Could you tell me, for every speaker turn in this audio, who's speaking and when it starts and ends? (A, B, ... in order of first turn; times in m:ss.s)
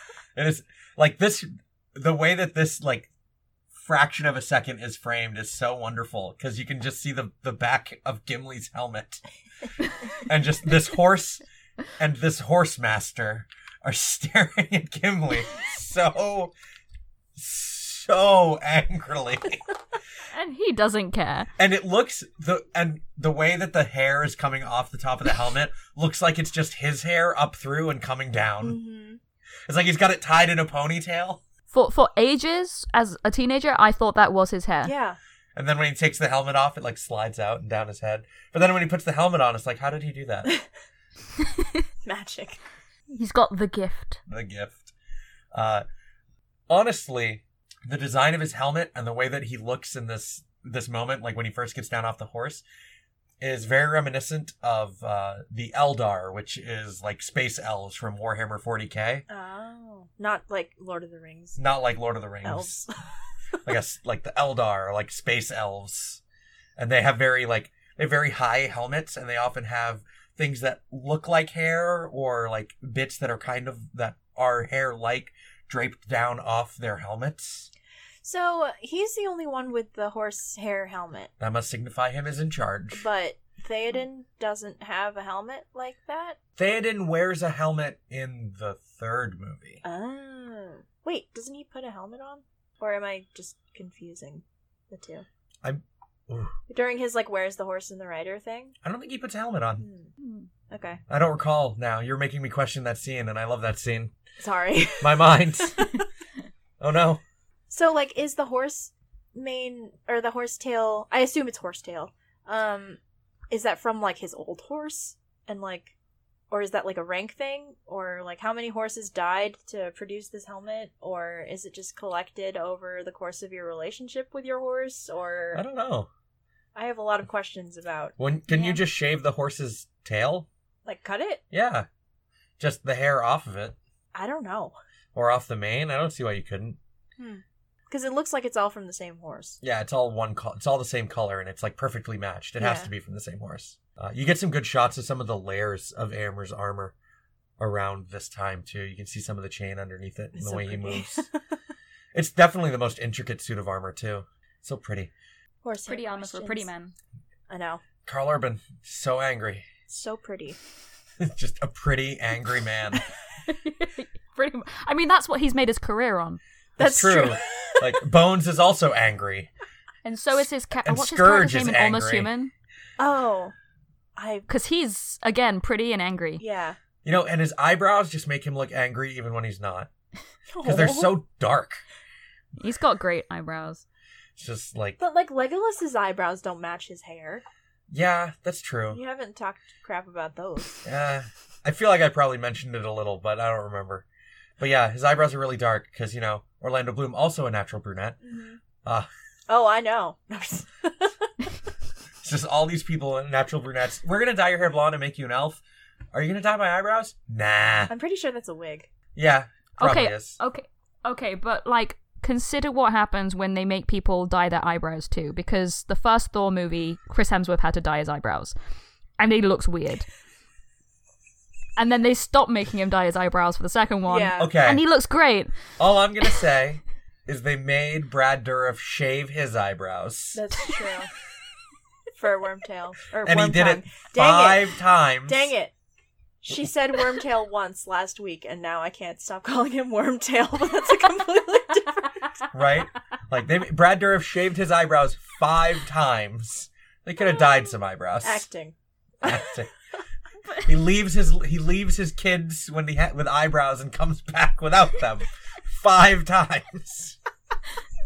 0:00.4-0:03.1 A
0:03.7-0:09.2 A
0:10.2-0:11.4 A
0:12.0-0:16.5 A
0:17.4-0:19.7 A
0:20.3-0:21.5 B
0:21.6-0:28.8 A
0:28.6-0:29.2 C
0:29.7-0:31.4 A
0:31.7-0:34.9 B
0:34.8-0:35.2 C
0:35.6-0:40.5 A
0:42.0-0:42.6 C
0:43.1-0:44.2 B
0:44.3-0:44.9 A
0:45.5-0:45.8 A
0:46.7-0:52.6 A
0:53.4-0:59.2 A
0:59.3-1:01.6 C
1:01.6-1:02.8 A
1:02.4-1:03.0 C
1:03.6-1:06.2 A
1:06.8-1:17.7 A
1:18.2-1:21.3 C
1:21.4-1:23.0 A
1:22.9-1:26.4 C
1:26.6-1:29.8 A
1:29.8-1:35.3 C
1:35.6-1:36.6 A
1:36.7-1:38.8 C
1:38.8-1:39.9 A
1:39.8-1:40.1 C
1:40.2-1:40.5 B
1:40.7-1:41.0 C
1:41.1-1:44.1 A
1:44.4-1:46.0 C
1:45.0-1:46.0 A
1:46.8-1:47.2 A
1:47.7-1:53.0 C
1:53.5-1:55.9 C
1:56.5-2:05.6 C
2:05.5-2:06.1 A
2:06.8-2:08.2 C
2:08.2-2:10.5 A
2:08.5-2:08.8 B
2:10.8-2:11.4 C
2:11.5-2:11.9 A
2:12.6-2:13.8 A
2:14.1-2:14.8 C
2:15.1-2:16.8 A
2:17.2-2:19.6 C
2:19.6-2:27.0 A
2:22.6-2:22.9 C
2:27.6-2:31.2 A
2:30.4-2:31.3 C
2:32.1-2:35.1 A
2:35.6-2:36.7 C
2:35.9-2:36.9 B
2:37.5-2:37.8 C
2:38.0-2:39.7 A
2:39.9-2:40.6 C
2:41.2-2:43.0 A
2:43.5-2:46.4 B
2:46.8-2:49.5 A
2:46.8-2:47.9 C
2:50.0-2:52.5 B
2:50.4-2:52.3 A
2:53.0-2:53.5 C
2:54.2-2:54.5 C
2:54.5-2:56.4 B
2:56.4-2:56.8 C
2:57.0-2:59.9 A
3:00.5-3:01.1 C
3:00.6-3:01.8 A
3:02.6-3:03.8 B
3:04.4-3:05.0 A
3:05.0-3:07.4 C
3:07.9-3:09.0 A
3:08.9-3:10.8 C
3:10.8-3:14.0 A
3:14.6-3:18.2 A
3:18.2-3:18.6 C
3:18.8-3:19.1 A
3:19.5-3:21.3 C
3:22.2-3:25.6 A
3:26.1-3:27.9 A
3:27.9-3:28.9 C
3:29.2-3:30.4 A
3:29.8-3:38.6 B
3:39.2-3:40.1 B
3:41.8-3:45.6 B
3:44.1-3:44.5 C
3:44.4-3:44.8 A
3:45.8-3:50.4 A
3:50.3-3:51.1 C
3:52.2-3:54.7 C
3:53.2-3:55.5 A
3:55.3-3:55.7 C
3:56.4-4:02.4 C
4:02.5-4:08.5 A
4:08.2-4:09.4 C
4:09.2-4:09.7 A
4:10.6-4:17.2 A